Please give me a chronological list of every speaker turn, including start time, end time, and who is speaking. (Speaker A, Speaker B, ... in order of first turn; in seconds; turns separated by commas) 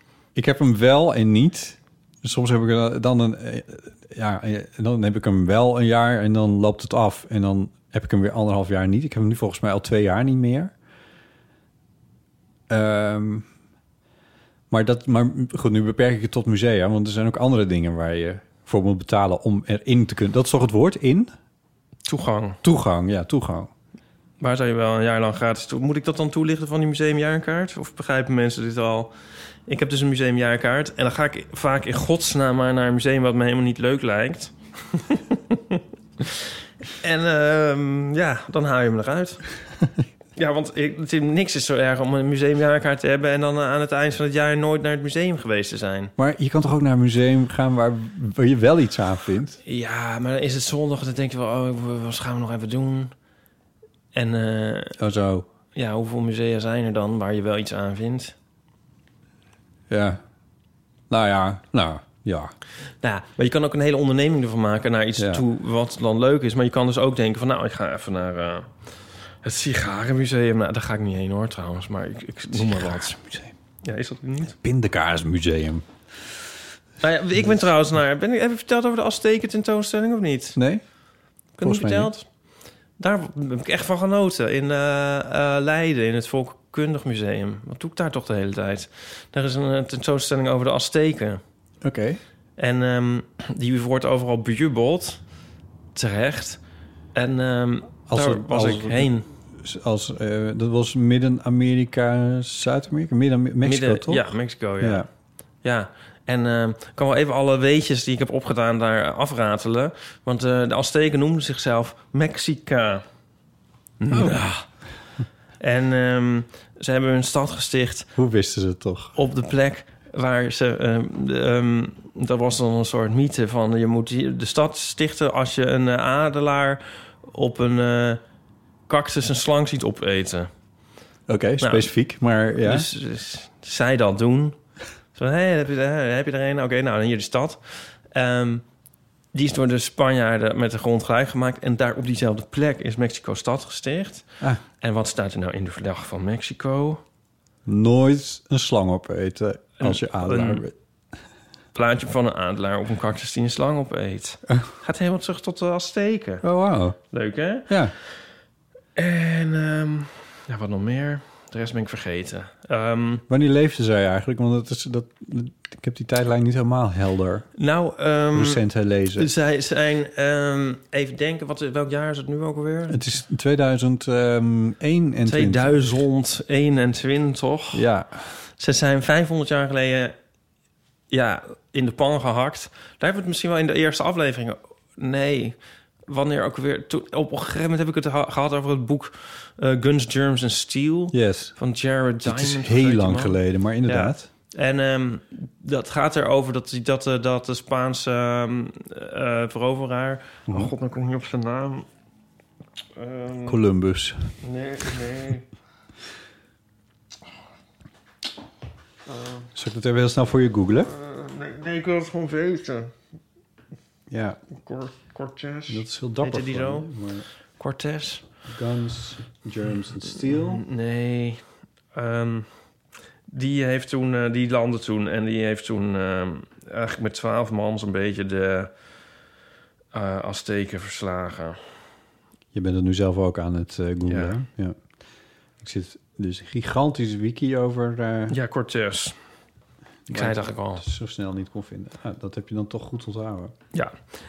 Speaker A: 0.3-10.7, Speaker A: 12.7-13.5, Speaker A: 14.7-21.3, Speaker B: 22.1-22.6, Speaker A: 22.6-23.7, Speaker B: 24.4-29.1, Speaker B: 29.7-36.5, Speaker B: 37.0-39.4, Speaker B: 40.4-46.1, Speaker A: 46.2-49.6, Speaker B: 49.6-53.1, Speaker B: 54.1-55.0, Speaker A: 55.0-55.5, Speaker B: 55.8-58.4, Speaker A: 59.9-60.2, Speaker A: 61.1-62.5, Speaker B: 63.0-68.7, Speaker A: 65.2-65.4, Speaker B: 69.4-73.2, Speaker A: 72.5-73.5, Speaker B: 73.8-74.5, Speaker A: 74.5-75.8, Speaker B: 77.0-80.6, Speaker A: 80.6-80.8, Speaker B: 81.6-82.2, Speaker A: 81.6-82.1, Speaker B: 83.0-91.4, Speaker A: 91.8-92.2, Speaker B: 92.6-95.2, Speaker B: 96.0-96.6, Speaker B: 97.2-99.3, Speaker A: 98.1-104.3, Speaker B: 103.6-105.1, Speaker A: 104.8-105.1, Speaker B: 105.6-113.0, Speaker B: 114.0-114.7, Speaker A: 114.1-114.4, Speaker B: 115.6-118.1, Speaker A: 118.2-119.2, Speaker B: 119.2-128.2, Speaker B: 128.9-130.5, Speaker A: 131.3-132.9, Speaker B: 131.6-131.9, Speaker B: 132.6-134.6, Speaker B: 135.2-137.6, Speaker B: 138.1-138.6, Speaker B: 139.3-144.3, Speaker B: 144.8-147.0, Speaker A: 147.7-150.7, Speaker B: 149.8-150.6, Speaker B: 151.8-156.4, Speaker A: 156.4-157.0, Speaker B: 157.1-157.8, Speaker A: 157.7-157.9, Speaker B: 159.0-163.2, Speaker A: 163.3-167.4, Speaker B: 167.6-168.6, Speaker A: 168.3-169.3, Speaker B: 169.2-173.1, Speaker A: 172.9-176.0, Speaker B: 175.2-177.8, Speaker A: 177.7-178.3, Speaker B: 178.6-180.2, Speaker B: 181.1-185.6, Speaker B: 186.1-201.9, Speaker A: 191.1-191.5, Speaker A: 192.2-194.3, Speaker B: 203.0-203.6, Speaker A: 203.5-204.3, Speaker B: 204.4-205.5, Speaker B: 209.1-209.4, Speaker A: 209.6-210.9, Speaker B: 210.9-212.9, Speaker A: 214.1-214.4, Speaker B: 214.6-216.9, Speaker A: 215.7-217.3, Speaker B: 217.6-218.2, Speaker A: 218.5-220.7, Speaker B: 220.3-221.4, Speaker B: 221.9-222.5, Speaker B: 223.3-228.7, Speaker B: 229.9-231.6, Speaker A: 232.5-234.8, Speaker B: 234.1-234.3, Speaker A: 235.6-238.4, Speaker B: 238.3-239.2, Speaker A: 240.1-243.6, Speaker B: 240.1-240.8